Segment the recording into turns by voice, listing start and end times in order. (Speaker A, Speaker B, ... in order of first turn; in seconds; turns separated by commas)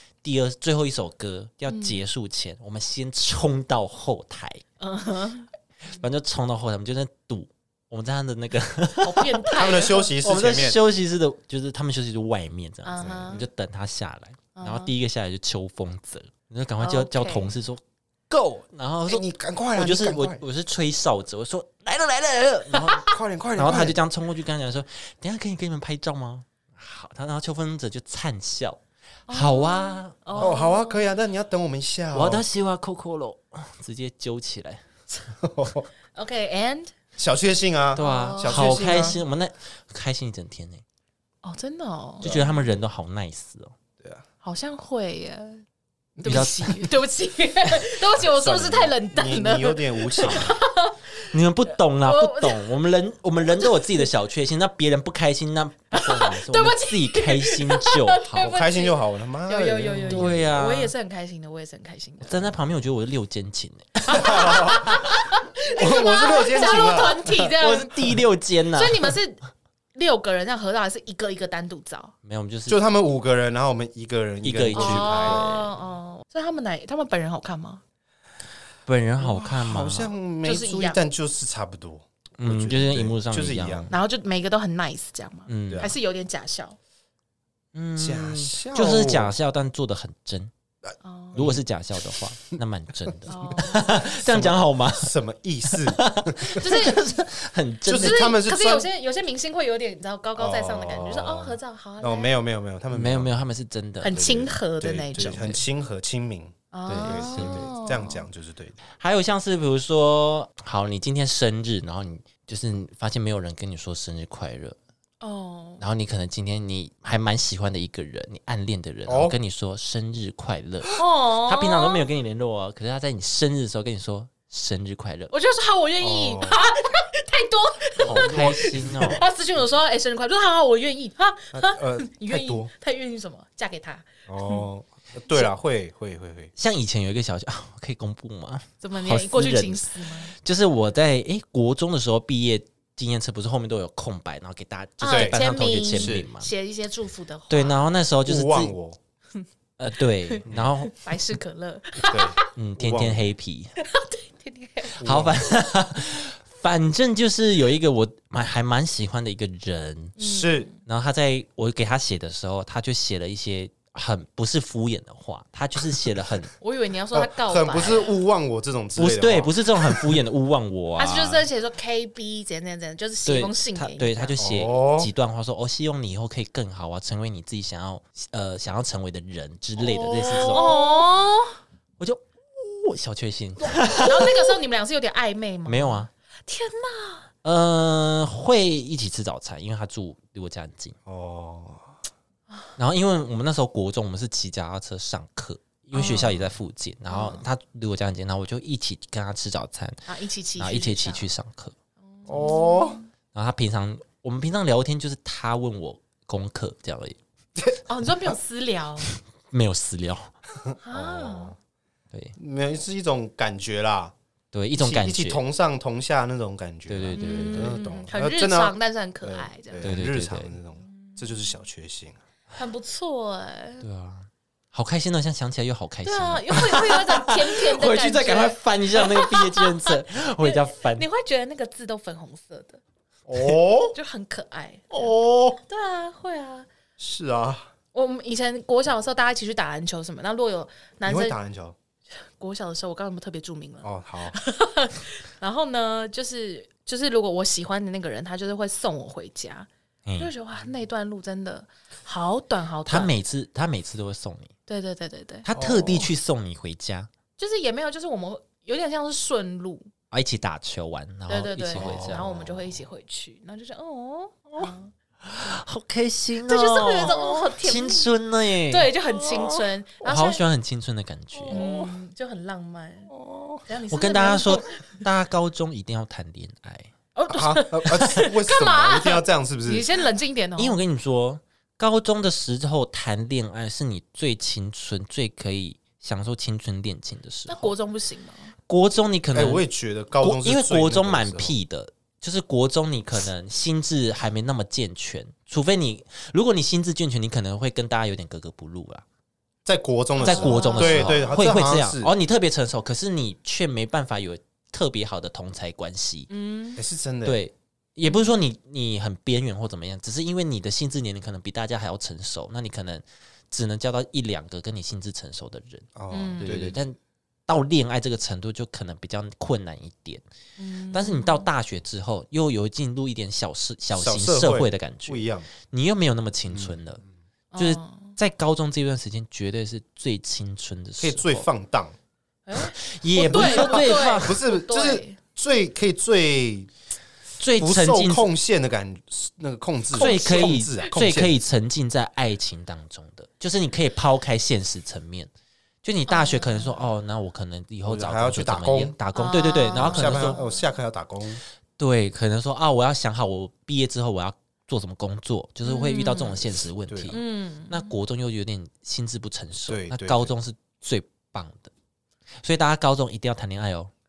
Speaker A: 0.2-4.6, Speaker B: 1.7-2.0, Speaker B: 4.8-6.0, Speaker A: 5.9-30.6, Speaker B: 9.0-10.1, Speaker C: 9.5-10.8, Speaker B: 12.8-13.4, Speaker C: 13.0-13.4, Speaker B: 14.6-14.9, Speaker B: 16.8-17.6, Speaker C: 19.1-20.4, Speaker B: 22.7-23.1, Speaker C: 23.0-24.0, Speaker B: 29.3-31.1, Speaker C: 30.4-32.4, Speaker A: 32.1-34.8, Speaker C: 35.4-35.9, Speaker B: 36.1-36.9, Speaker C: 37.2-39.2, Speaker A: 38.0-40.8, Speaker B: 38.0-39.2, Speaker B: 41.4-42.7, Speaker A: 42.2-43.7, Speaker B: 44.4-45.6, Speaker C: 46.2-46.5, Speaker B: 46.2-51.2, Speaker A: 46.2-46.9, Speaker C: 48.1-50.6, Speaker A: 50.2-50.5, Speaker A: 51.3-58.5, Speaker B: 52.0-52.7, Speaker B: 53.6-54.1, Speaker B: 55.9-62.5, Speaker C: 58.4-60.5, Speaker A: 60.1-60.9, Speaker A: 62.2-65.2, Speaker B: 64.1-68.2, Speaker C: 64.2-64.8, Speaker C: 65.8-67.3, Speaker A: 66.8-69.2, Speaker B: 68.8-69.4, Speaker B: 70.0-72.1, Speaker A: 72.2-72.8, Speaker C: 72.7-75.4, Speaker A: 74.4-75.7, Speaker B: 74.7-77.8, Speaker A: 78.9-80.1, Speaker C: 79.2-83.9, Speaker B: 80.4-81.0, Speaker A: 82.4-84.0, Speaker B: 83.9-86.8, Speaker A: 85.5-85.9, Speaker C: 85.7-85.9, Speaker A: 87.7-90.5, Speaker C: 88.0-89.3, Speaker B: 91.0-91.4, Speaker C: 91.3-91.6, Speaker A: 91.4-95.1, Speaker B: 93.3-94.1, Speaker C: 93.8-96.7, Speaker A: 95.7-98.2, Speaker B: 96.6-97.0, Speaker C: 97.9-98.9, Speaker B: 98.0-102.3, Speaker C: 100.4-103.3, Speaker A: 102.9-104.3, Speaker B: 104.0-105.5, Speaker C: 104.1-108.8, Speaker A: 105.2-105.6, Speaker B: 106.7-108.2, Speaker A: 106.9-107.7, Speaker A: 109.0-114.8, Speaker B: 115.2-115.8, Speaker A: 115.8-125.3, Speaker C: 119.1-119.4, Speaker B: 121.0-122.1, Speaker B: 125.3-134.7, Speaker C: 126.0-126.6, Speaker C: 128.0-129.2, Speaker A: 128.1-129.2, Speaker C: 131.5-132.7, Speaker C: 134.3-136.5, Speaker A: 136.6-146.5, Speaker B: 138.8-140.3, Speaker B: 145.0-147.8, Speaker C: 145.1-146.3, Speaker A: 147.5-148.7, Speaker C: 148.3-149.0, Speaker A: 149.8-151.0, Speaker B: 150.2-152.5, Speaker C: 152.0-153.3, Speaker A: 152.5-153.7, Speaker B: 153.8-155.0, Speaker A: 155.0-160.2, Speaker C: 155.0-155.3, Speaker B: 160.2-160.8, Speaker C: 160.2-160.7, Speaker A: 160.8-166.5, Speaker B: 166.6-168.2, Speaker C: 167.1-170.2, Speaker A: 169.0-171.5, Speaker B: 171.0-174.4, Speaker A: 173.3-180.9, Speaker C: 174.4-175.1, Speaker C: 179.8-180.8, Speaker B: 180.2-181.6, Speaker A: 182.0-184.6, Speaker B: 183.9-187.3, Speaker A: 185.7-186.1, Speaker A: 187.4-190.9, Speaker C: 191.1-191.9, Speaker A: 192.8-200.1, Speaker B: 195.9-196.4, Speaker B: 197.1-197.4, Speaker B: 200.1-201.3, Speaker A: 200.6-201.7, Speaker B: 202.1-203.1, Speaker C: 202.3-203.0, Speaker A: 203.3-207.2, Speaker B: 207.9-209.1, Speaker A: 209.1-210.3, Speaker C: 210.7-211.6, Speaker B: 210.8-211.5, Speaker C: 212.4-214.1, Speaker A: 214.5-215.4, Speaker C: 214.8-222.2, Speaker A: 216.9-217.7, Speaker B: 217.1-220.0, Speaker A: 219.8-220.6, Speaker B: 220.8-221.5, Speaker B: 222.6-223.9, Speaker A: 223.8-231.1, Speaker B: 226.0-232.8, Speaker C: 233.3-233.9, Speaker B: 233.9-236.7, Speaker C: 234.9-235.6, Speaker C: 237.0-237.7, Speaker B: 237.9-241.4, Speaker C: 241.1-241.8, Speaker B: 242.4-253.1, Speaker C: 243.8-244.4, Speaker A: 250.1-250.3, Speaker A: 252.9-254.5, Speaker B: 254.7-255.5, Speaker A: 255.4-257.1, Speaker C: 255.5-256.1, Speaker B: 257.4-259.9, Speaker A: 260.1-262.3, Speaker B: 261.3-264.9, Speaker C: 261.7-262.7, Speaker A: 265.2-268.9, Speaker B: 266.5-268.1, Speaker B: 268.7-270.4, Speaker C: 269.2-269.6, Speaker A: 270.1-271.6, Speaker C: 271.4-271.9, Speaker B: 271.5-273.1, Speaker C: 273.1-273.6, Speaker B: 273.7-275.1, Speaker A: 273.9-276.9, Speaker B: 277.1-280.8, Speaker C: 277.3-279.9, Speaker A: 280.6-287.7, Speaker B: 287.5-288.5, Speaker A: 288.7-289.6, Speaker C: 289.3-291.6, Speaker A: 290.2-299.0, Speaker C: 299.6-302.1, Speaker B: 300.2-301.4, Speaker A: 300.2-306.3, Speaker B: 306.3-306.8, Speaker C: 306.8-307.4, Speaker A: 307.2-317.0, Speaker B: 308.1-308.4, Speaker C: 315.9-316.8, Speaker B: 316.1-316.5, Speaker A: 317.5-320.2, Speaker B: 320.6-321.5, Speaker A: 320.9-327.0, Speaker C: 323.9-325.5, Speaker C: 326.5-326.8, Speaker B: 327.5-328.2, Speaker A: 327.6-331.5, Speaker C: 331.0-331.9, Speaker B: 332.5-335.2, Speaker A: 332.8-334.4, Speaker C: 333.1-336.7, Speaker A: 337.4-338.3, Speaker C: 337.6-341.4, Speaker A: 339.9-345.3, Speaker B: 339.9-340.9, Speaker A: 345.8-350.4, Speaker B: 346.1-346.8, Speaker C: 347.9-349.0, Speaker B: 349.1-350.6, Speaker C: 349.8-351.4, Speaker A: 351.8-361.7, Speaker B: 355.6-356.5, Speaker C: 356.9-357.1, Speaker B: 357.1-357.9, Speaker C: 359.7-360.3, Speaker A: 362.4-363.9